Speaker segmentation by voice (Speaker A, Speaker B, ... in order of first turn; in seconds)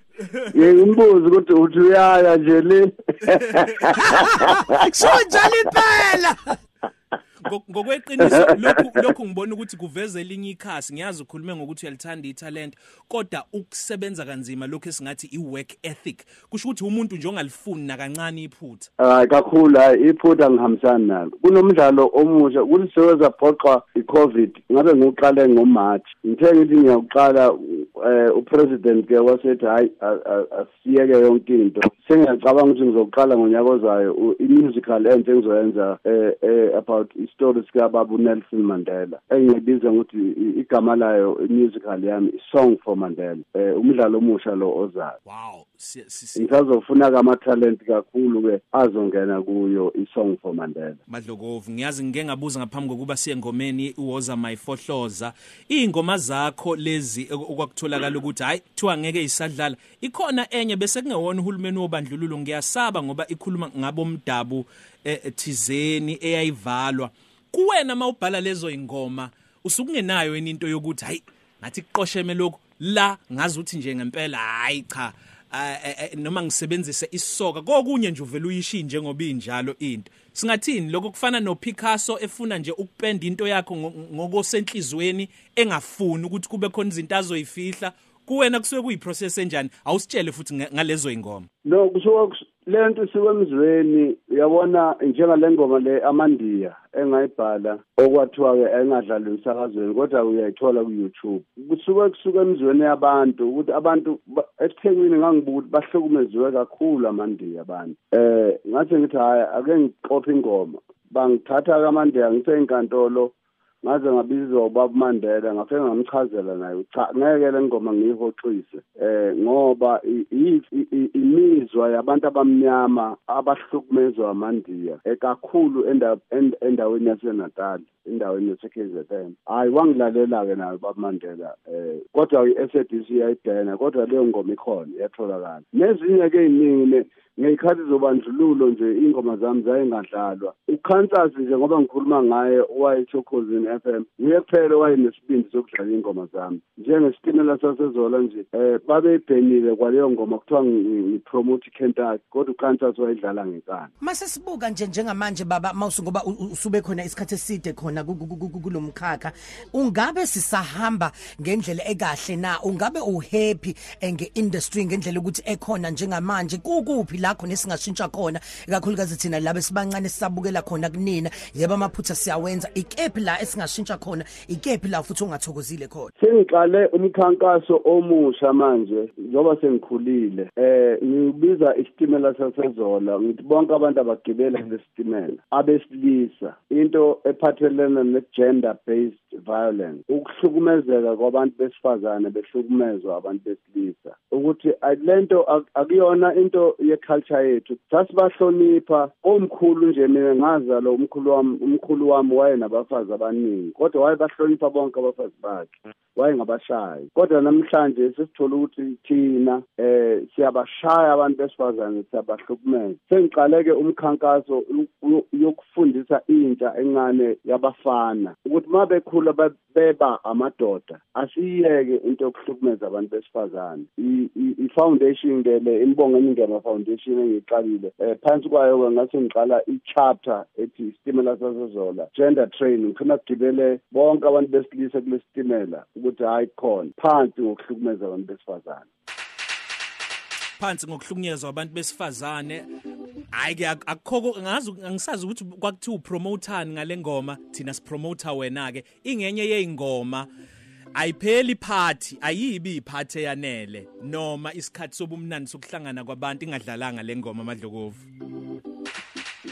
Speaker A: 0.5-4.9, 19.0-45.2, 46.4-51.0, 91.7-153.9, 176.2-238.9
Speaker B: 3.6-4.4, 7.4-18.9, 45.3-46.5, 51.1-91.5, 240.6-242.7, 243.3-250.3, 250.9-258.1
Speaker C: 4.0-6.6, 154.0-176.1